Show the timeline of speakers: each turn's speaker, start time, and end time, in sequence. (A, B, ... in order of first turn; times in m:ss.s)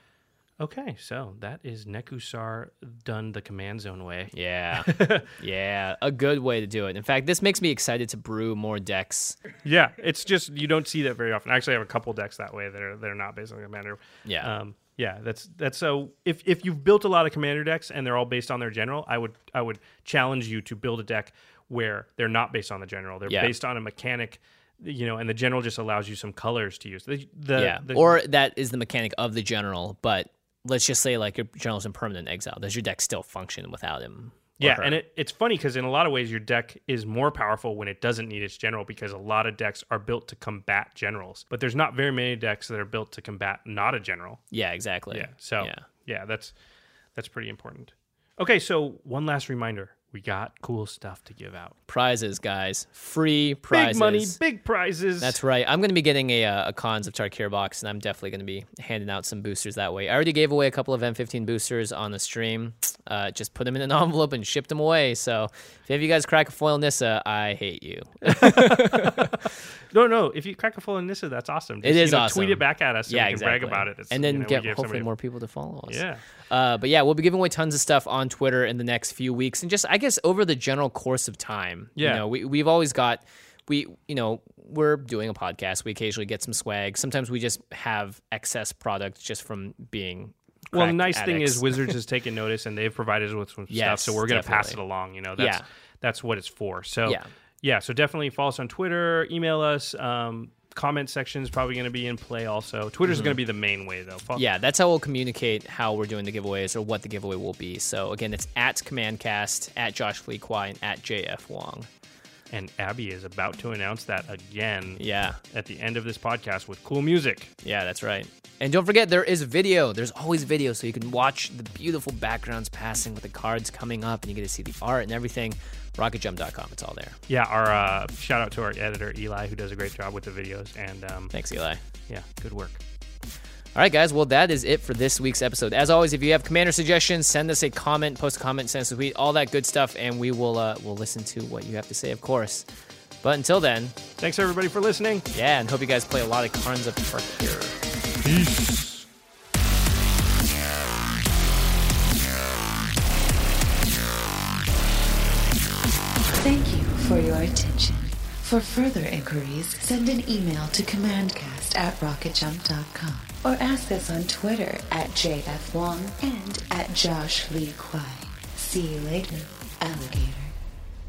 0:00.6-0:05.3 A
0:04.3-0:09.4 B
0:09.6-0:28.2 A
0:14.2-0:14.5 B
0:23.3-0:23.5 B
0:27.6-0:35.0 B
0:34.6-0:44.4 A
0:44.5-0:45.9 B
0:45.1-0:46.5 A
0:47.2-0:51.7 A
0:51.9-0:54.4 B
0:53.7-0:55.4 A
0:55.2-1:09.3 B
1:08.3-1:15.1 A
1:11.8-1:32.0 B
1:15.9-1:16.2 A
1:22.0-1:22.2 A
1:30.7-1:44.4 A
1:33.7-1:34.8 B
1:35.4-1:35.7 B
1:43.1-1:43.4 B
1:44.4-1:51.9 B
1:52.5-1:57.5 A
1:55.0-1:55.4 B
1:57.6-2:07.2 B
2:07.3-2:11.3 A
2:11.3-2:11.8 B
2:12.1-2:12.8 A
2:13.8-2:22.6 B
2:23.2-2:24.0 B
2:24.2-2:25.3 A
2:25.3-2:27.8 B
2:28.2-2:29.1 A
2:36.3-2:50.5 C